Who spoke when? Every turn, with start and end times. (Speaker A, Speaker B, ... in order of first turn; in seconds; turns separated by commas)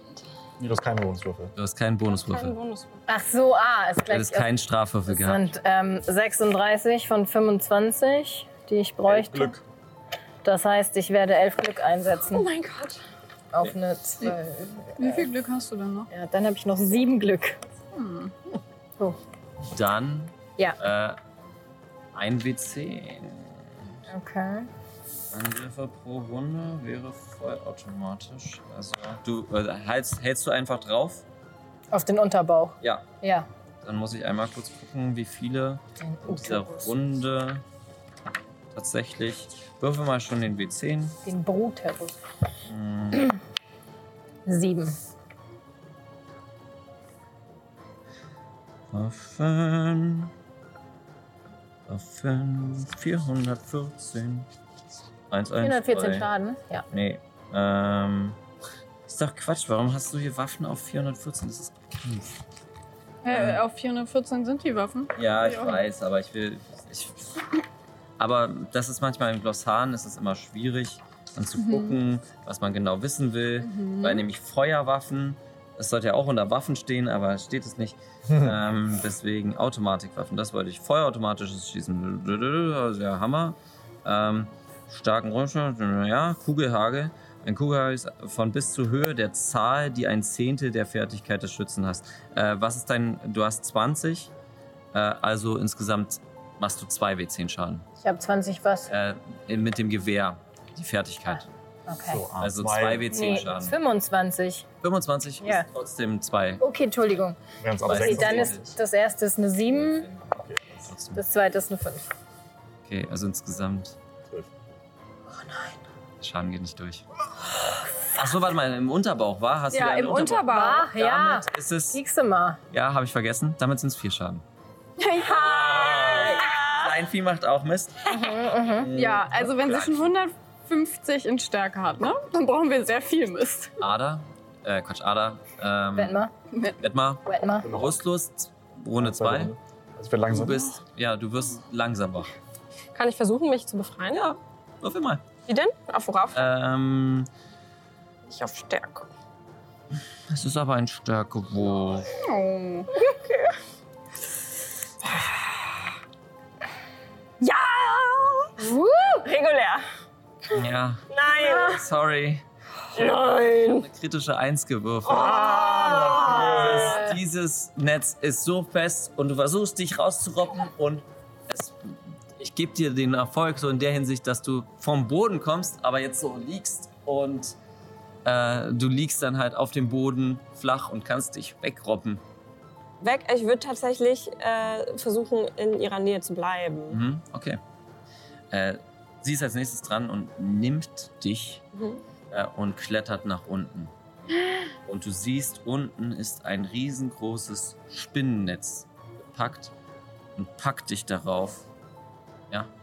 Speaker A: 0.6-1.5, Speaker B: 1.6-2.5, Speaker C: 2.1-3.0, Speaker D: 3.1-4.5, Speaker B: 4.1-5.5, Speaker D: 5.1-9.6, Speaker A: 9.1-9.6, Speaker D: 10.4-12.5, Speaker C: 12.3-13.0, Speaker D: 13.5-15.3, Speaker E: 15.0-16.1, Speaker D: 16.1-17.6, Speaker E: 17.9-18.3, Speaker B: 19.7-21.2, Speaker B: 22.1-23.7, Speaker D: 24.1-24.7, Speaker B: 25.3-31.2, Speaker D: 31.9-33.5, Speaker B: 33.8-37.6, Speaker D: 36.0-36.9, Speaker B: 38.7-41.2, Speaker D: 41.2-42.2, Speaker B: 42.7-43.4, Speaker D: 44.5-45.0, Speaker B: 48.9-50.3, Speaker B: 51.9-54.5, Speaker B: 55.3-56.3, Speaker D: 55.6-56.9, Speaker B: 56.9-58.4, Speaker B: 59.1-62.4, Speaker E: 63.2-65.8, Speaker B: 63.3-63.6, Speaker B: 65.2-67.4, Speaker B: 68.2-94.3, Speaker E: 71.6-72.0, Speaker E: 73.6-74.2, Speaker A: 78.3-78.5, Speaker B: 94.9-97.9, Speaker D: 98.0-98.9, Speaker B: 98.9-101.5, Speaker D: 101.9-102.2, Speaker A: 102.1-103.2, Speaker B: 102.4-103.8, Speaker D: 103.1-104.7, Speaker B: 104.8-106.6, Speaker D: 106.6-110.1, Speaker A: 107.6-108.7, Speaker B: 107.8-108.7, Speaker B: 109.9-110.2, Speaker B: 110.8-111.2, Speaker D: 111.1-112.1, Speaker B: 112.8-114.0, Speaker D: 115.4-115.8, Speaker B: 116.2-117.0, Speaker B: 118.1-122.0, Speaker E: 119.7-120.9, Speaker D: 120.5-122.6, Speaker B: 122.7-124.4, Speaker E: 125.0-126.5, Speaker B: 125.3-128.1, Speaker C: 126.1-126.8, Speaker D: 128.1-128.9, Speaker B: 128.7-130.1, Speaker E: 128.9-133.7, Speaker B: 133.8-136.2, Speaker D: 136.0-136.3, Speaker E: 136.5-136.8, Speaker B: 136.8-139.5, Speaker D: 137.2-137.7, Speaker A: 137.6-138.0, Speaker A: 139.0-140.7, Speaker B: 140.3-142.3, Speaker C: 142.9-144.4, Speaker B: 144.8-145.2, Speaker C: 145.5-146.5, Speaker B: 146.3-147.3, Speaker C: 148.3-149.1, Speaker B: 150.3-152.1, Speaker E: 152.2-152.9, Speaker C: 152.9-153.6, Speaker C: 155.1-155.6, Speaker C: 157.4-158.6, Speaker D: 158.7-159.2, Speaker C: 159.2-159.9, Speaker B: 160.5-162.4, Speaker C: 161.1-161.8, Speaker C: 162.9-163.9, Speaker B: 163.7-177.6, Speaker C: 165.1-167.1, Speaker D: 166.6-167.1, Speaker B: 178.2-182.2, Speaker C: 183.0-187.0, Speaker B: 186.9-187.6, Speaker B: 188.5-191.6, Speaker C: 191.7-192.0, Speaker B: 192.3-193.9, Speaker B: 194.8-199.7, Speaker B: 200.4-201.6